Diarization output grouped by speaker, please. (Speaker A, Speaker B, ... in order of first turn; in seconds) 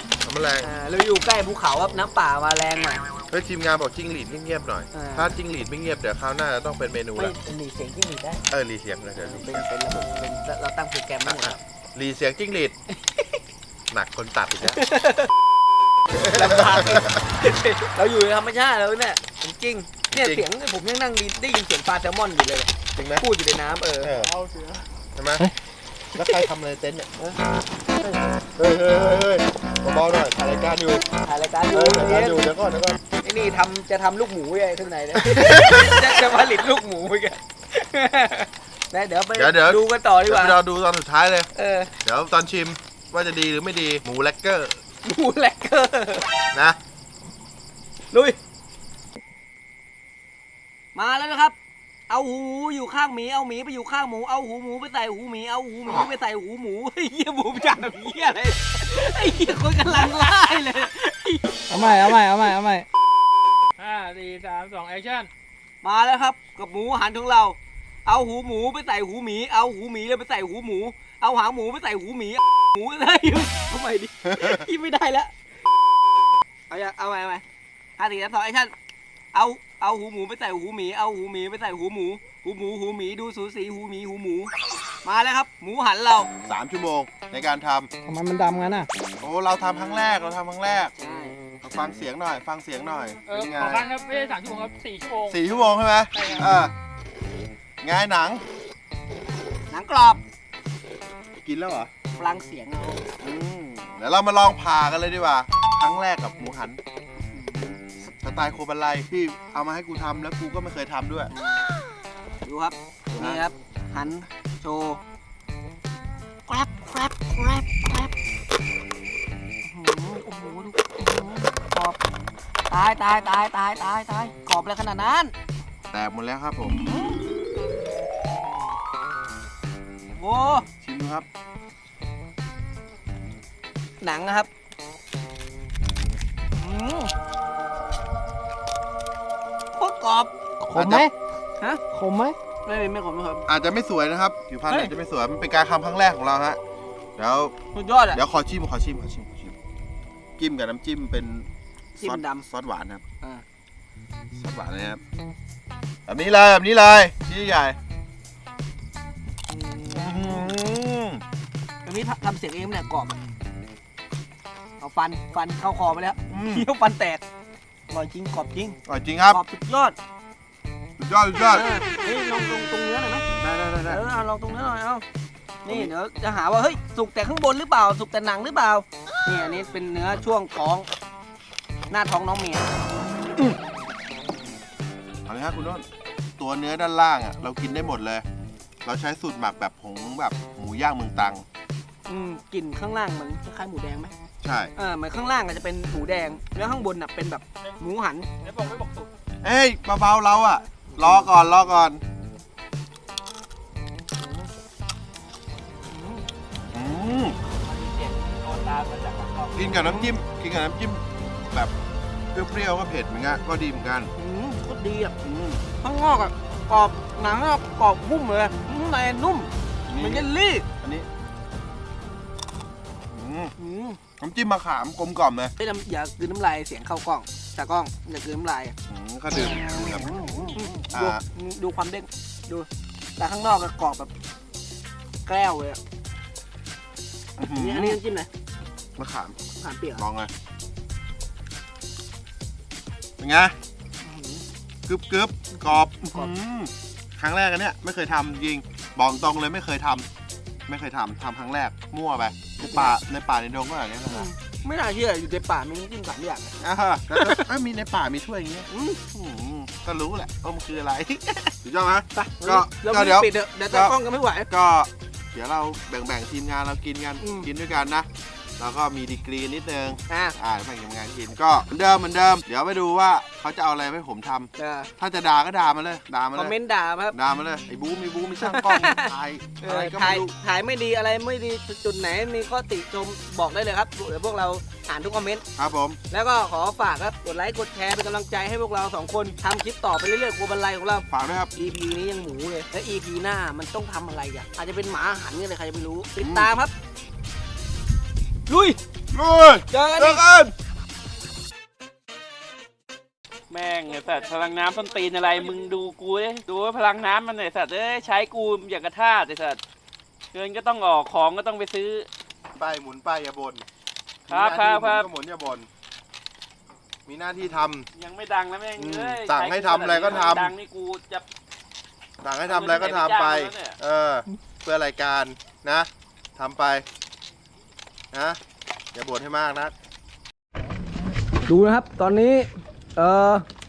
Speaker A: 0.2-0.7, 3.3-7.4, 8.5-9.7, 11.2-12.8, 13.9-14.8, 16.1-17.2, 20.1-20.5, 22.9-23.2, 24.0-24.4, 25.1-25.5, 26.1-27.1, 28.6-31.1, 31.7-33.0, 35.2-36.0, 39.4-41.5, 42.0-44.8, 46.5-46.8, 74.2-74.6, 86.4-87.9, 89.2-90.9, 91.6-93.9, 95.2-96.7, 97.8-98.4, 101.4-101.9, 103.2-106.8, 108.1-111.3, 113.2-113.4, 125.9-127.0, 130.8-131.3, 140.7-141.1, 143.5-146.6, 147.2-147.5, 148.1-149.5, 150.4-153.0, 154.3-155.0, 156.1-157.8, 159.9-161.2, 166.3-166.7, 168.9-169.4, 171.0-171.7, 173.4-174.0, 175.7-175.9, 185.2-185.9, 186.4-188.2, 188.8-191.4, 194.4-194.7, 199.4-202.0, 206.7-207.4, 209.5-211.7, 212.3-214.1, 215.2-215.6, 219.9-221.1, 223.1-223.5, 224.2-225.5, 228.9-231.2, 237.4-238.0, 239.0-239.4, 240.0-240.3, 243.2-243.6, 244.9-250.1, 250.7-254.3, 256.6-263.9, 264.5-268.1, 268.6-276.6, 277.1-280.4, 285.6-286.0, 291.1-291.5, 296.2-296.5, 299.1-300.5, 312.5-313.6, 314.3-315.7, 317.1-317.9, 318.8-320.5, 322.2-326.9, 328.1-328.4, 328.9-329.7
Speaker B: 0.6-3.0, 4.9-5.3, 7.2-8.5, 9.2-11.6, 14.8-15.3, 16.2-24.1, 31.2-32.5, 33.2-40.6, 41.5-41.9, 45.0-46.3, 48.1-48.4, 50.9-51.5, 52.1-62.6, 65.8-75.3, 76.7-77.4, 78.0-78.7, 79.3-84.5, 85.0-86.3, 91.0-91.4, 99.7-100.2, 102.1-103.0, 107.3-107.8, 111.3-111.7, 112.4-115.0, 116.5-118.1, 119.7-122.0, 122.7-125.3, 126.9-127.2, 130.2-130.7, 134.0-134.5, 136.6-137.1, 139.8-140.3, 142.6-143.4, 144.7-144.9, 147.7-148.2, 151.9-152.4, 159.5-160.6, 161.8-163.2, 164.8-167.2, 167.9-170.0, 171.5-173.2, 173.9-175.0, 175.6-180.9, 181.9-182.8, 192.1-194.1, 194.8-198.3, 200.9-201.3, 205.9-206.2, 207.7-210.1, 214.2-220.7, 223.6-224.0, 225.6-228.8, 230.5-234.1, 235.2-235.8, 237.5-238.3, 239.5-240.0, 244.0-244.4, 245.5-246.3, 252.6-252.9, 254.1-256.6, 257.1-257.4, 258.7-259.0, 262.1-264.5, 267.2-267.5, 270.1-270.4, 274.6-274.9, 276.4-277.1, 278.4-285.4, 286.1-296.7, 298.5-298.8, 299.7-300.3, 331.4-333.4
Speaker C: 61.7-62.9, 88.1-88.8, 93.3-94.1, 94.7-95.3, 140.6-141.0, 141.9-142.3
Speaker D: 63.8-65.3, 93.3-95.1
Speaker E: 208.3-209.4, 303.5-309.6, 310.3-312.1, 314.3-315.1, 317.9-321.2, 322.4-323.8